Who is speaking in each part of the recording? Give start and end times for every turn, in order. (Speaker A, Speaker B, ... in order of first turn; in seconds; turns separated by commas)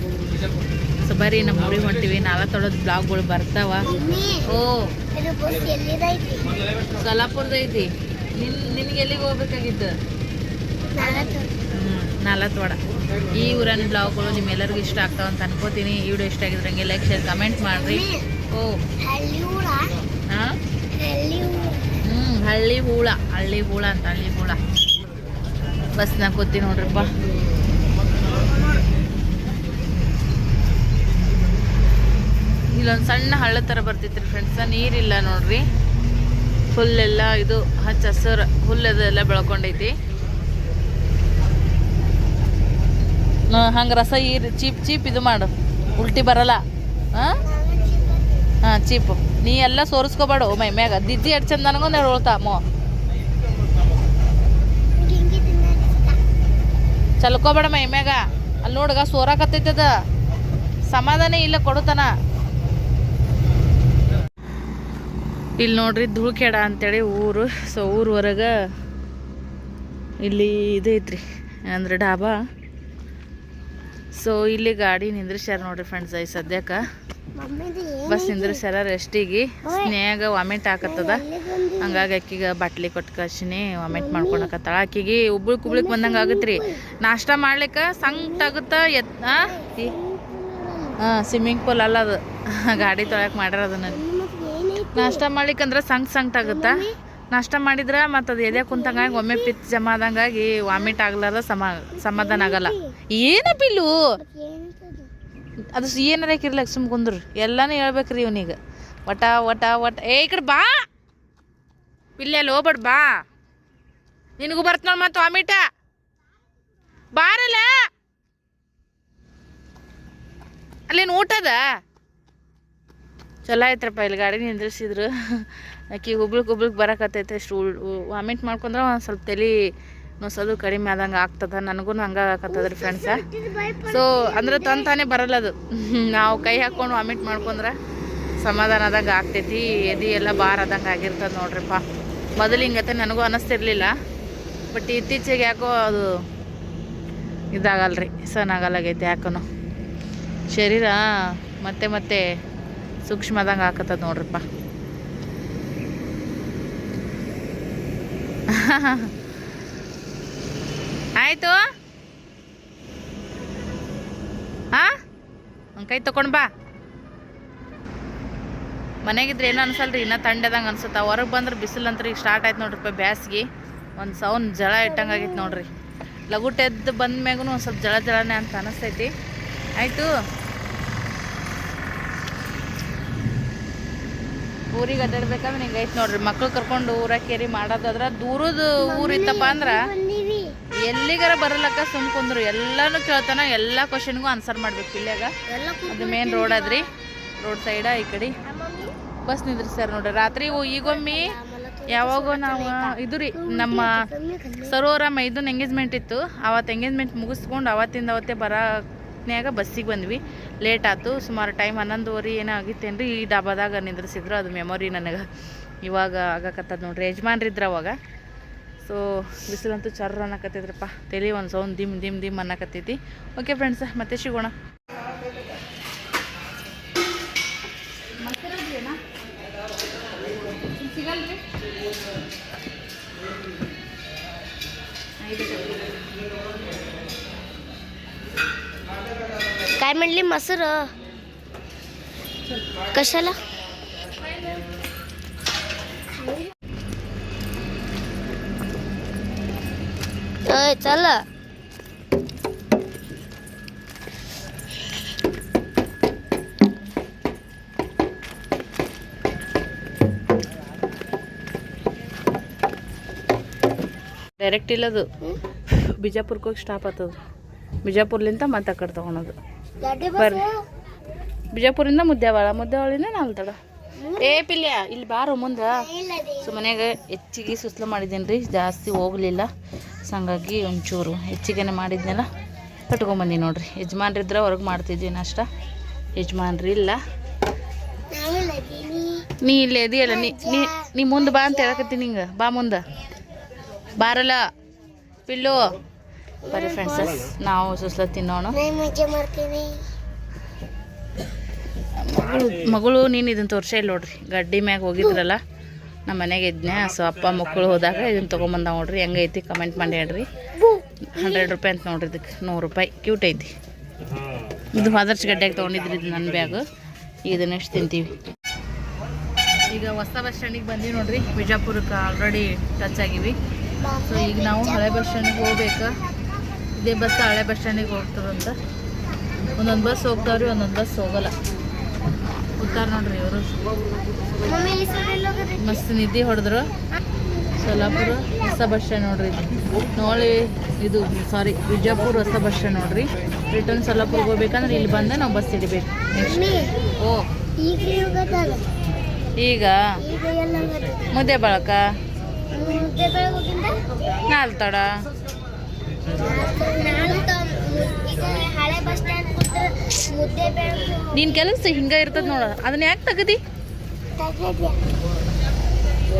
Speaker A: 1.0-3.9, Speaker B: 3.8-4.5, Speaker A: 4.5-4.9, Speaker B: 5.1-6.5, Speaker A: 7.0-9.9, Speaker B: 10.9-11.6, Speaker A: 11.7-12.8, Speaker A: 13.3-18.8, Speaker B: 17.7-18.2, Speaker B: 19.0-19.9, Speaker B: 21.0-21.8, Speaker A: 22.1-24.6, Speaker A: 26.0-27.1, Speaker A: 32.7-35.6, Speaker A: 36.7-39.9, Speaker A: 43.5-46.6, Speaker B: 47.4-48.5, Speaker A: 48.6-52.6, Speaker B: 55.0-56.2, Speaker A: 57.2-59.9, Speaker A: 60.9-62.1, Speaker A: 65.6-68.5, Speaker A: 70.2-72.4, Speaker A: 74.2-76.9, Speaker B: 77.4-78.6, Speaker A: 78.1-81.2, Speaker B: 79.6-79.9, Speaker B: 80.8-82.1, Speaker A: 81.8-90.0, Speaker B: 83.9-84.5, Speaker B: 85.7-86.8, Speaker B: 88.0-88.5, Speaker B: 89.5-91.0, Speaker A: 91.0-94.0, Speaker B: 92.8-93.0, Speaker B: 93.9-95.2, Speaker A: 95.0-96.8, Speaker B: 96.4-97.0, Speaker A: 97.3-104.0, Speaker B: 98.5-99.5, Speaker B: 100.7-101.0, Speaker B: 101.9-103.0, Speaker B: 104.2-105.1, Speaker A: 105.7-110.7, Speaker A: 112.2-113.1, Speaker A: 114.4-115.6, Speaker A: 117.2-117.7, Speaker A: 120.9-121.6, Speaker A: 123.5-129.5, Speaker A: 130.2-133.2, Speaker B: 132.5-135.0, Speaker A: 133.9-137.8, Speaker B: 136.3-137.6, Speaker A: 138.4-141.8, Speaker A: 142.4-143.9, Speaker A: 144.7-146.1, Speaker A: 147.5-149.4, Speaker A: 150.5-151.0, Speaker A: 151.6-152.2, Speaker A: 153.1-154.4, Speaker A: 158.5-159.1, Speaker A: 161.2-161.6, Speaker A: 165.8-166.5, Speaker A: 169.0-173.4, Speaker A: 174.0-175.7, Speaker B: 174.8-175.6, Speaker A: 176.3-179.1, Speaker A: 179.8-180.1, Speaker A: 184.7-189.8, Speaker B: 188.8-190.5, Speaker A: 190.8-195.3, Speaker B: 195.5-196.9, Speaker A: 195.9-196.8, Speaker A: 197.4-198.3, Speaker B: 198.4-199.0, Speaker A: 199.2-201.3, Speaker B: 200.4-204.8, Speaker A: 201.9-204.0, Speaker A: 204.7-208.7, Speaker A: 209.3-215.3, Speaker A: 215.8-218.0, Speaker A: 218.8-224.5, Speaker A: 228.2-229.0, Speaker A: 230.7-231.4, Speaker A: 235.2-235.8, Speaker B: 239.8-240.9, Speaker B: 242.9-243.4, Speaker B: 246.2-246.5, Speaker B: 250.5-251.2, Speaker A: 264.4-265.1, Speaker A: 266.0-267.2, Speaker A: 267.8-269.4, Speaker B: 269.8-270.6, Speaker A: 270.2-270.4, Speaker A: 271.5-273.6, Speaker B: 274.0-274.4, Speaker A: 274.2-275.9, Speaker B: 275.7-276.6, Speaker A: 276.4-279.5, Speaker A: 280.1-282.2, Speaker A: 282.9-285.5, Speaker A: 286.1-287.0, Speaker B: 288.1-289.2, Speaker A: 289.4-292.8, Speaker B: 290.0-291.9, Speaker A: 294.0-294.4, Speaker A: 295.3-295.6, Speaker B: 296.5-297.1, Speaker A: 296.5-298.6, Speaker B: 298.5-299.8, Speaker A: 302.1-305.4, Speaker A: 306.1-310.2, Speaker B: 310.6-311.5, Speaker A: 311.1-313.5, Speaker A: 314.7-316.6, Speaker A: 317.2-318.1, Speaker A: 319.7-323.4, Speaker B: 323.8-325.2, Speaker A: 324.1-326.0, Speaker A: 326.8-328.6, Speaker A: 329.6-331.3, Speaker A: 332.6-333.5, Speaker B: 334.4-335.8, Speaker A: 335.6-336.7, Speaker A: 337.6-346.5, Speaker B: 338.1-338.3, Speaker B: 346.2-346.7, Speaker B: 347.6-348.7, Speaker A: 349.4-349.8, Speaker B: 350.0-351.3, Speaker A: 351.1-351.8, Speaker B: 352.5-353.8, Speaker A: 354.3-354.9, Speaker B: 356.2-361.4, Speaker A: 361.1-363.4, Speaker B: 364.2-364.8